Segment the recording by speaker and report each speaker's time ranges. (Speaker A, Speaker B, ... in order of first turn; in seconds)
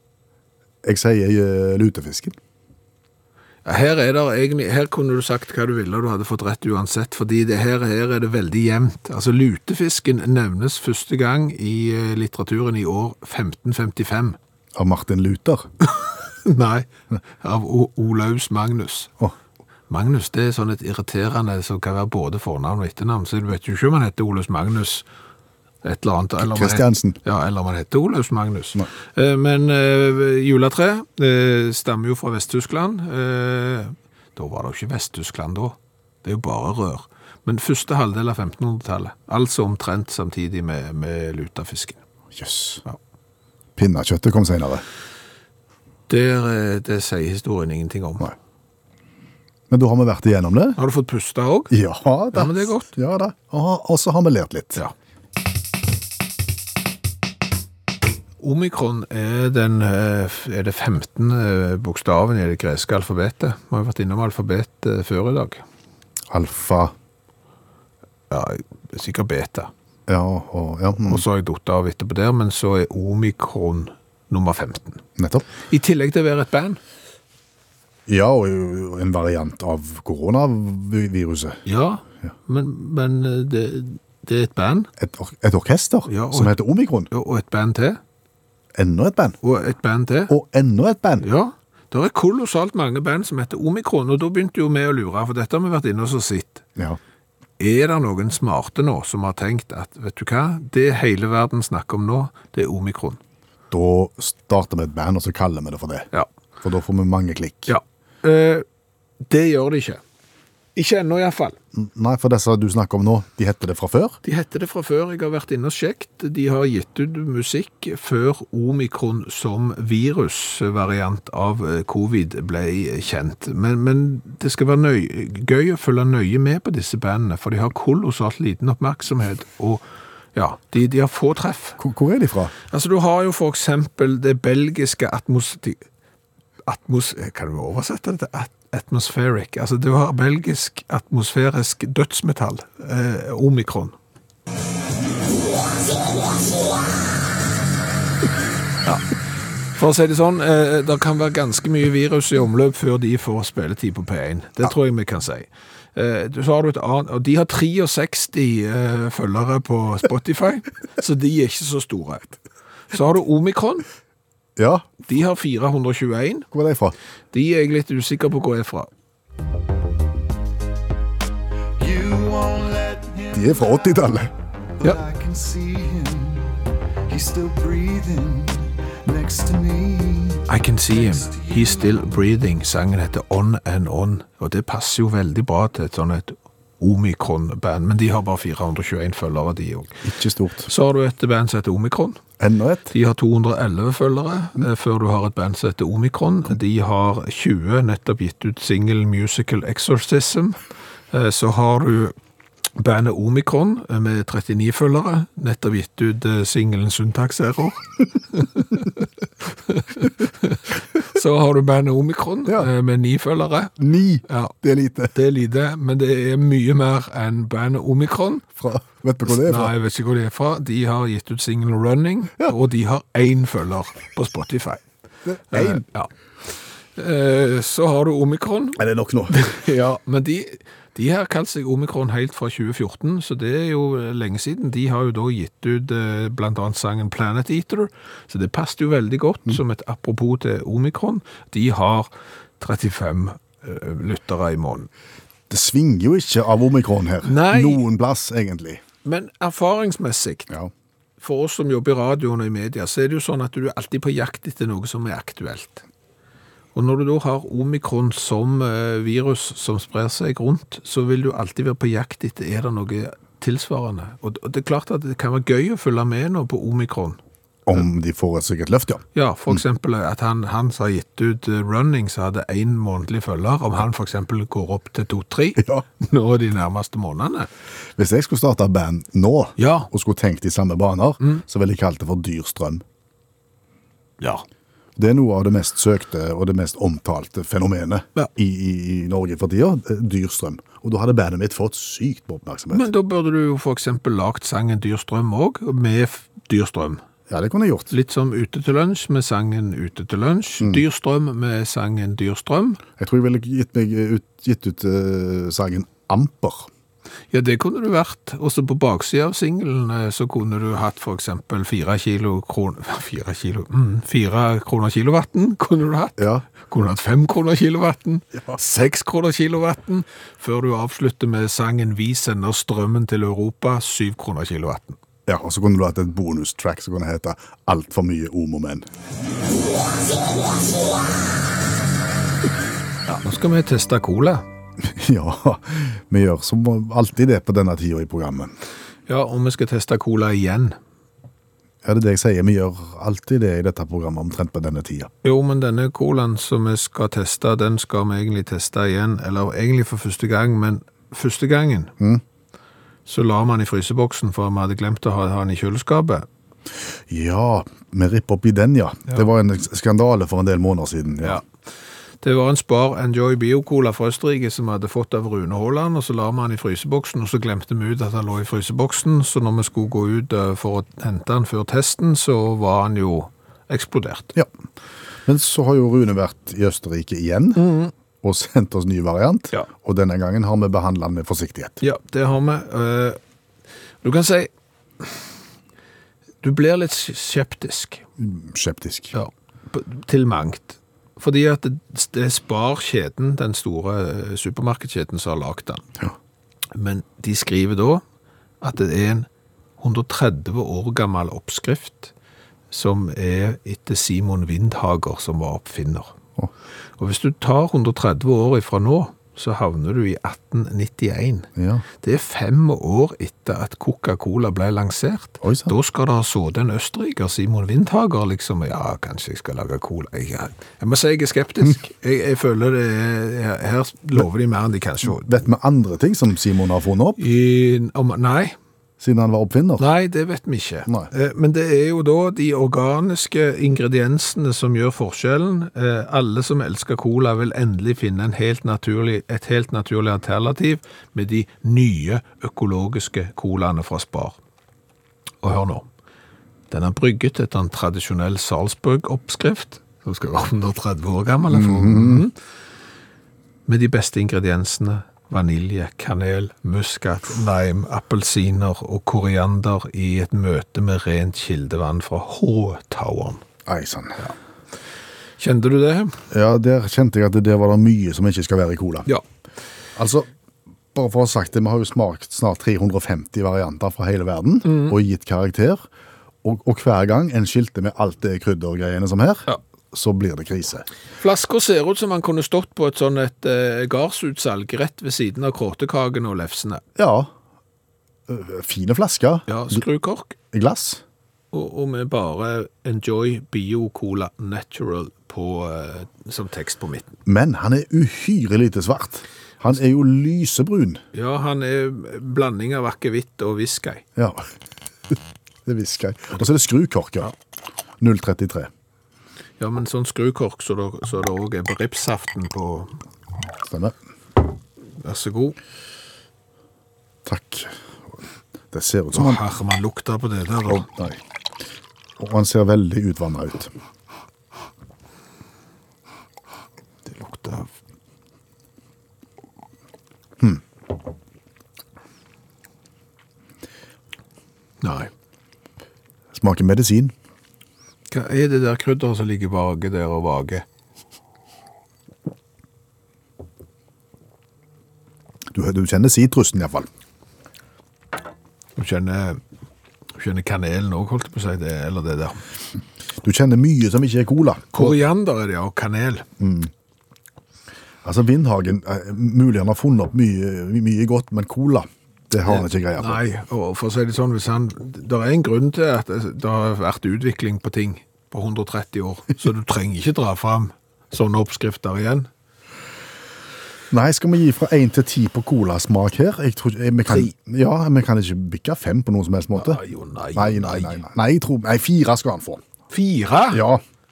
Speaker A: 0.8-2.4, 14.7-15.7, 26.4-27.2, 42.3-42.8, 43.8-44.8, 49.7-50.8, 51.7-54.8, 66.3-66.9, 70.1-71.2, 75.2-75.5, 78.1-81.6, 85.0-87.1, 88.7-89.4, 90.3-91.2, 103.7-106.1, 106.6-107.7, 111.7-114.2, 131.8-132.5, 164.6-164.9, 166.5-166.9, 173.3-174.3, 190.0-190.7, 192.4-192.9, 213.8-215.1, 218.6-219.7, 225.2-225.8, 228.8-229.4, 245.5-248.8, 267.7-269.6, 275.6-275.8, 278.0-282.8, 285.0-292.9, 297.3-297.9, 303.0-306.7, 316.2-316.5, 325.3-328.9, 334.8-338.5, 341.8-345.1, 357.1-361.4, 375.2-381.8, 388.2-389.1, 411.6-411.8, 415.4-415.7, 425.0-427.2, 429.0-429.9, 451.5-452.2, 463.7-464.3, 466.3-469.1, 469.9-470.3, 470.9-475.8, 476.4-480.9, 486.9-487.3, 488.3-489.8, 490.5-491.0, 497.2-501.0, 504.1-504.5, 505.6-507.3, 508.0-508.7, 513.7-514.0, 517.2-517.8, 518.7-519.4, 520.7-521.2, 522.2-523.7, 536.3-537.1, 545.5-546.9, 553.2-554.9, 556.4-556.7, 558.0-563.2, 573.9-579.8, 580.3-582.6, 583.5-583.8
Speaker B: 3.6-14.4, 16.4-16.9, 17.4-19.1, 19.9-25.0, 25.8-42.0, 46.1-48.3, 50.8-51.7, 52.3-52.9, 58.4-65.6, 68.3-69.7, 71.0-75.0, 75.7-76.8, 81.7-84.9, 86.1-86.5, 87.1-88.0, 89.4-90.3, 91.2-96.6, 97.6-103.2, 107.7-108.6, 109.2-110.0, 110.8-111.6, 114.2-129.8, 130.3-131.8, 132.7-135.8, 136.7-143.9, 149.7-162.4, 162.9-163.8, 165.1-166.5, 167.3-168.9, 180.5-189.9, 190.7-192.2, 192.9-200.6, 201.1-202.1, 202.8-213.8, 214.3-214.5, 215.1-218.5, 219.2-224.8, 225.5-226.1, 226.9-242.1, 242.6-244.9, 247.2-247.8, 249.0-250.5, 251.2-255.8, 256.7-267.2, 269.1-277.5, 279.6-279.9, 292.7-297.0, 297.9-302.8, 307.3-325.0, 333.1-334.4, 339.1-340.8, 345.2-351.9, 353.1-356.3, 362.2-374.3, 377.6-377.9, 381.8-383.2, 384.0-385.2, 386.4-388.0, 389.1-395.9, 396.7-398.0, 398.6-399.3, 399.8-402.1, 402.7-406.1, 407.0-411.5, 412.0-425.3, 427.2-428.6, 429.8-444.4, 445.4-445.9, 446.7-452.3, 453.7-463.4, 465.4-466.2, 474.6-474.9, 481.2-486.8, 489.5-490.4, 491.5-497.1, 501.1-504.0, 509.6-512.9, 515.0-515.6, 519.1-520.9, 527.0-527.7, 534.8-535.1, 538.1-540.6, 548.8-549.4, 550.2-552.4, 554.7-556.2, 562.5-572.3, 579.5-581.0, 582.9-583.6
Speaker C: 171.8-173.6, 174.8-176.5, 177.1-180.4, 181.0-181.8